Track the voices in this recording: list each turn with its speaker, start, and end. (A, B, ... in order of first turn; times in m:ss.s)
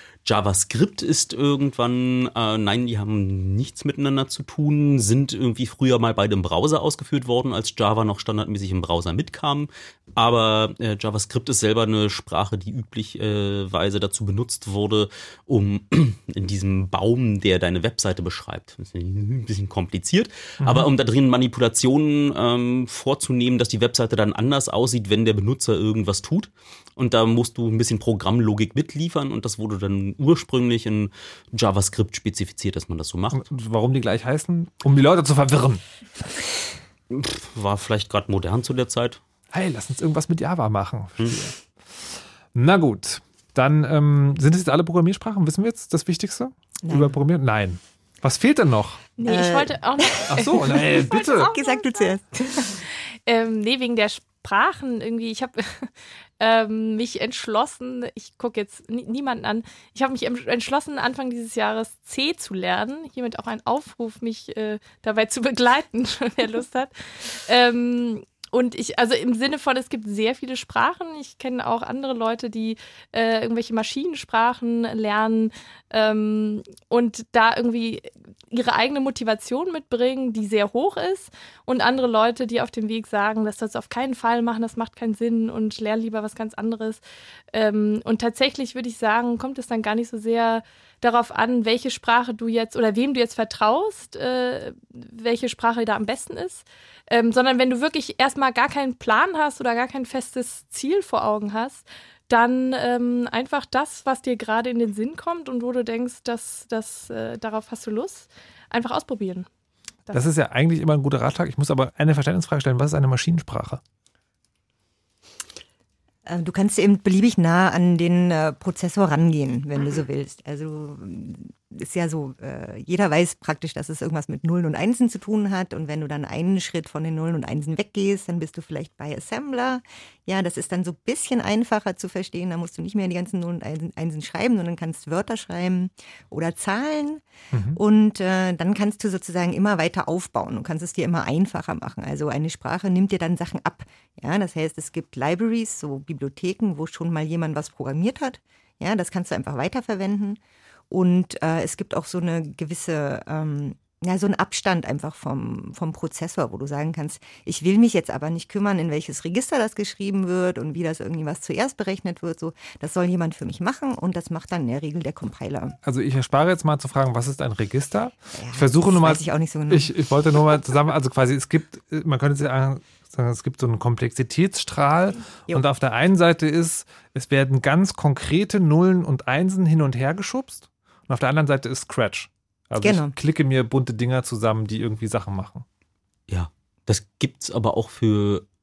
0:00.2-0:33.4 A
0:20.6-0:20.9 B
0:33.3-0:35.8 B
0:37.1-0:39.2 A
0:39.5-0:49.1 B
0:46.9-0:47.2 C
0:49.2-0:52.1 D
0:49.3-0:52.8 C
0:50.3-0:51.5 B
0:53.3-1:27.0 D
1:27.5-1:49.5 D
1:50.1-1:53.8 B
1:56.3-2:17.2 C
2:17.5-2:17.8 B
2:17.7-2:30.4 C
2:30.9-2:45.8 C
2:45.8-3:05.6 B
2:48.4-2:49.9 C
3:02.8-3:03.1 C
3:06.3-3:08.4 A